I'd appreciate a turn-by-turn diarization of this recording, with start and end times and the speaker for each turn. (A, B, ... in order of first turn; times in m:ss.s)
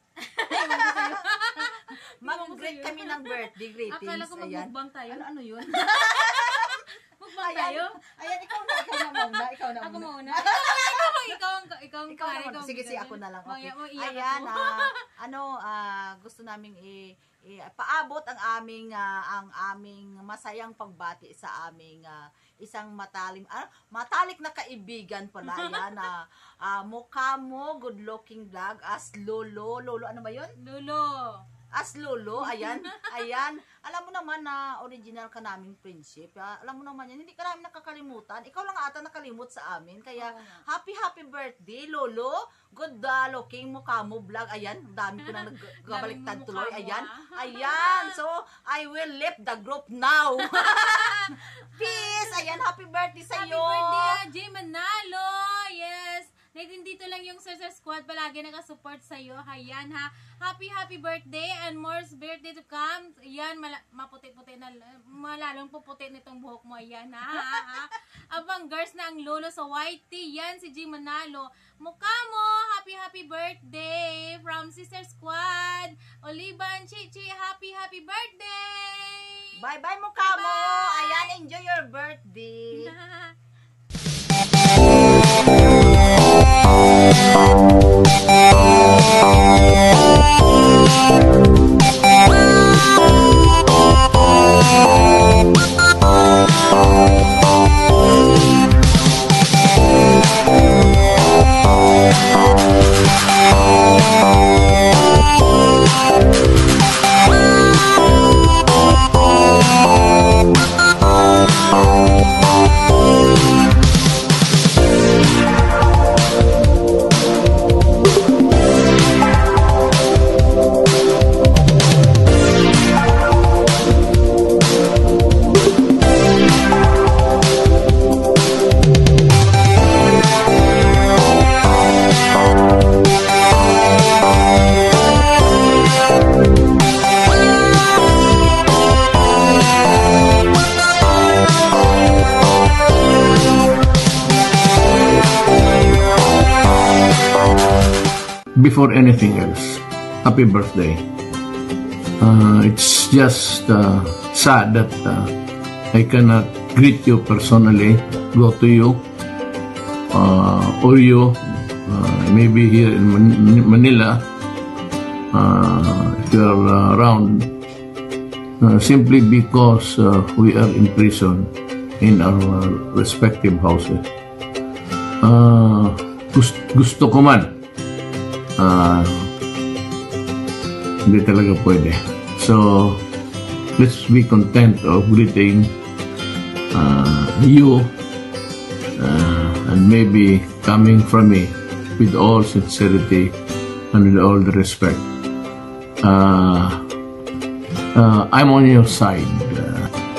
0:00.2-0:08.0 A
0:00.5-0:01.2 B
0:02.2-0:06.6 B
0:07.4-0:11.2 B
0:08.5-0:14.9 A
0:12.1-0:30.5 B
0:25.4-0:25.9 A
0:30.6-0:31.4 A
0:31.7-0:51.1 B
0:32.4-0:33.4 A
0:40.2-0:40.6 A
0:45.2-0:48.2 A
0:50.5-0:52.6 A
0:51.8-0:54.1 B
0:53.3-1:19.5 A
1:19.6-1:22.9 B
1:20.2-1:21.3 A
1:22.7-1:23.3 A
2:28.6-2:31.0 C
2:32.2-2:35.3 C
2:35.9-2:39.0 C
2:40.1-2:44.2 C
2:45.3-2:47.5 C
2:48.6-2:54.0 C
2:55.2-2:57.6 C
2:58.6-2:59.3 C
3:01.0-3:03.0 C
3:03.8-3:05.7 C
3:06.7-3:07.9 C
3:09.0-3:13.3 C
3:13.9-3:15.0 C
3:16.0-3:16.8 C
3:17.9-3:19.9 C